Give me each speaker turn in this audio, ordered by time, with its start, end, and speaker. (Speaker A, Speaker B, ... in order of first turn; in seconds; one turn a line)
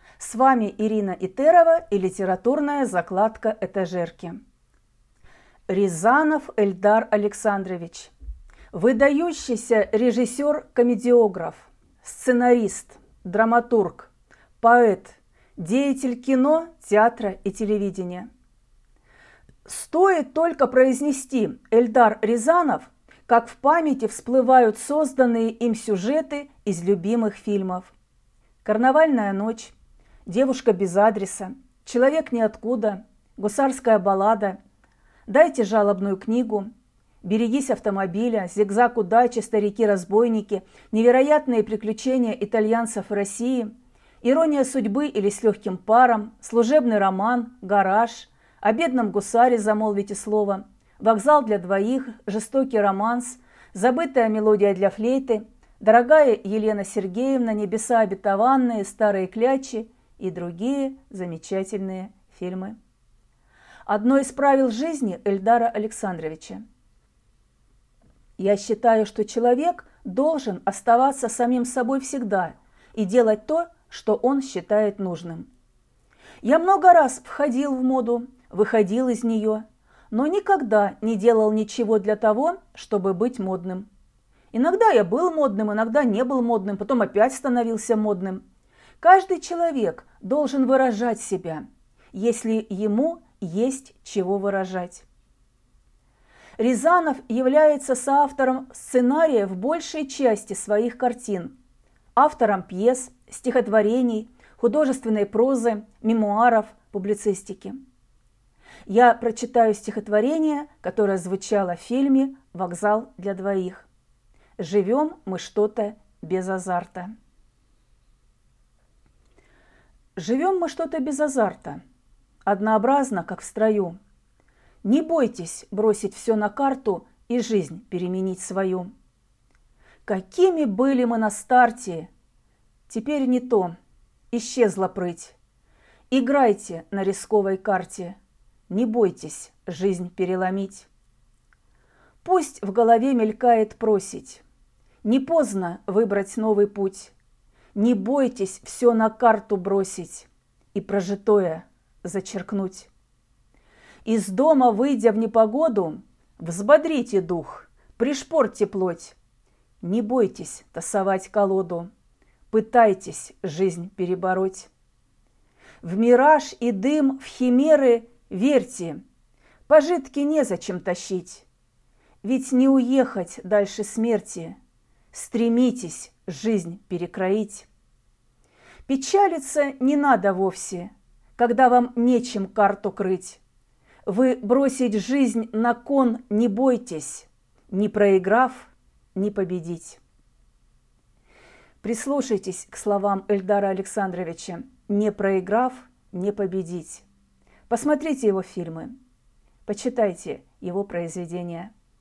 Speaker A: 0.2-4.4
Speaker A: 5.7-8.1
Speaker A: 8.7-18.3
Speaker A: 19.7-27.9
Speaker A: 28.6-29.7
Speaker A: 30.3-34.6
Speaker A: 35.3-36.7
Speaker A: 37.2-43.7
Speaker A: 44.2-62.8
Speaker A: 63.9-66.6
Speaker A: 68.4-75.5
Speaker A: 76.4-83.9
Speaker A: 84.5-88.4
Speaker A: 89.0-95.0
Speaker A: 96.6-101.5
Speaker A: 102.2-107.8
Speaker A: 108.9-113.9
Speaker A: 114.6-117.1
Speaker A: 120.2-121.8
Speaker A: 122.5-124.0
Speaker A: 124.8-128.9
Speaker A: 130.1-132.1
Speaker A: 132.9-133.8
Speaker A: 134.3-135.3
Speaker A: 136.1-138.2
Speaker A: 138.7-140.9
Speaker A: 142.2-144.4
Speaker A: 145.0-147.1
Speaker A: 147.8-152.9
Speaker A: 154.1-159.2
Speaker A: 159.8-161.9
Speaker A: 162.5-164.7
Speaker A: 165.8-169.0
Speaker A: 169.7-171.5
Speaker A: 172.2-174.6
Speaker A: 175.1-177.7
Speaker A: 178.9-183.4
Speaker A: 184.1-190.0
Speaker A: 191.8-197.1
Speaker A: 197.7-198.9
Speaker A: 199.7-201.7